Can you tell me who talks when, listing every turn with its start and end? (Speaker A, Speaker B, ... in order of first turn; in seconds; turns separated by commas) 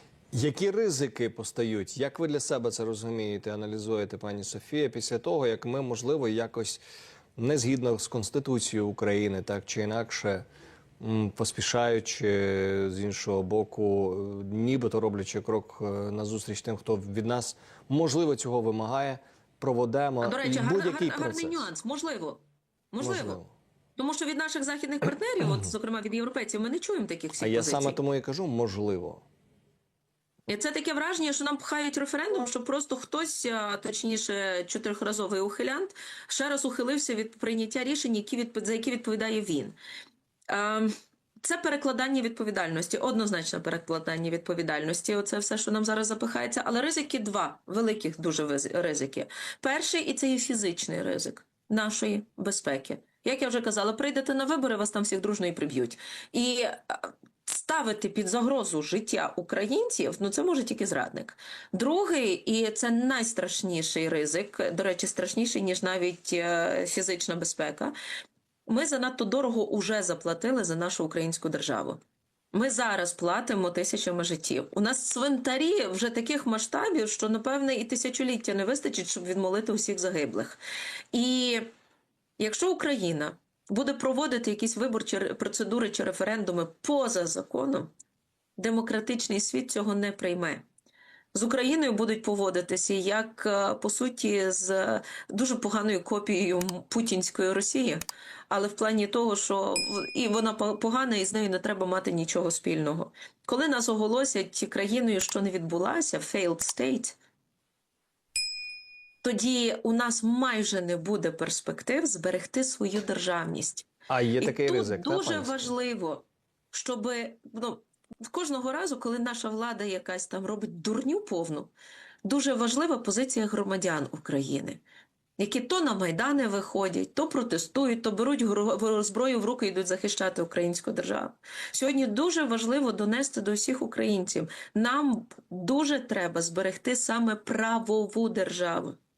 Speaker A: 0.3-6.8, Speaker A: 7.4-10.4, Speaker A: 11.0-21.7, Speaker B: 20.2-22.4, Speaker B: 22.9-23.4, Speaker A: 23.0-23.5, Speaker B: 24.0-28.0, Speaker A: 27.4-29.2, Speaker B: 30.5-39.7, Speaker B: 40.5-67.9, Speaker B: 68.7-72.0, Speaker B: 72.5-80.6, Speaker B: 81.1-81.7, Speaker B: 82.4-87.9, Speaker B: 88.6-90.6, Speaker B: 91.3-107.2, Speaker B: 109.2-113.9, Speaker A: 114.1-115.7, Speaker B: 114.4-121.7, Speaker B: 122.2-124.8, Speaker B: 125.4-139.0